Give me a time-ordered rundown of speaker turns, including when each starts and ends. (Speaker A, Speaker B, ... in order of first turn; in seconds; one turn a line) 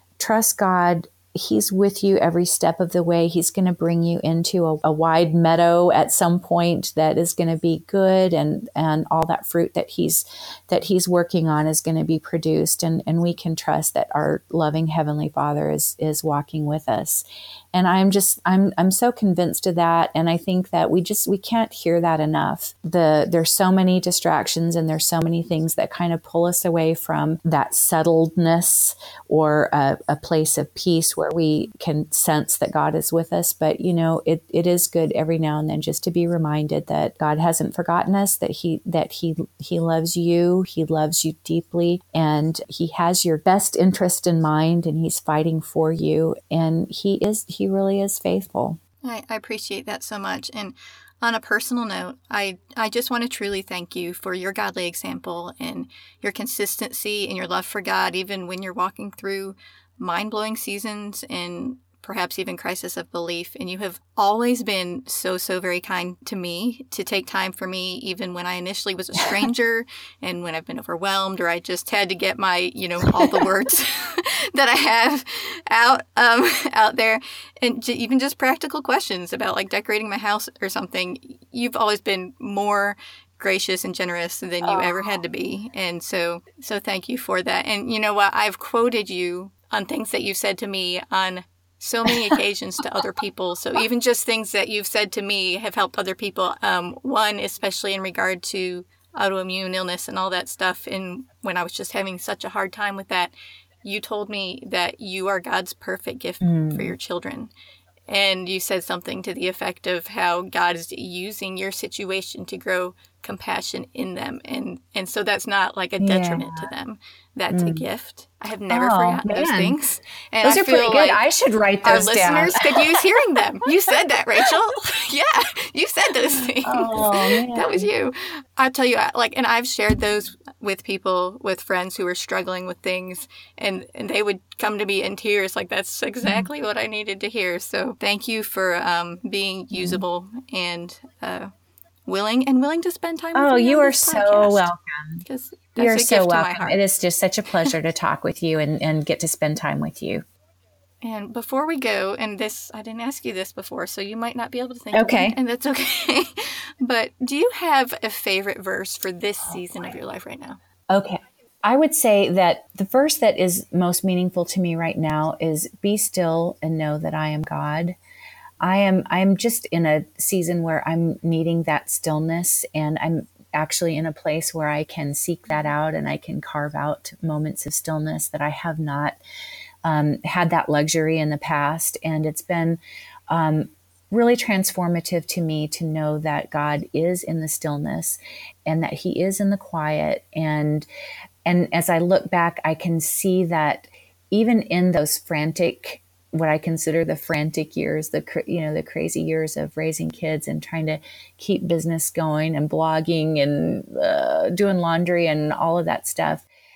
Speaker A: 0.2-48.8
Speaker B: 49.0-103.3
Speaker A: 84.6-85.2
Speaker B: 103.8-107.5
Speaker A: 106.4-107.0
Speaker B: 108.1-121.2
Speaker A: 116.0-116.7
Speaker A: 117.5-117.8
Speaker A: 118.7-119.8
Speaker A: 120.4-123.4
Speaker B: 121.8-141.5
Speaker A: 126.6-127.9
Speaker A: 139.7-140.0
Speaker B: 142.1-144.7
Speaker A: 143.3-145.2
Speaker B: 145.2-146.8
Speaker A: 145.8-150.2
Speaker B: 151.0-160.6
Speaker A: 154.9-155.4
Speaker A: 160.9-168.0
Speaker A: 168.6-179.2
Speaker A: 179.8-190.9
Speaker A: 191.4-206.5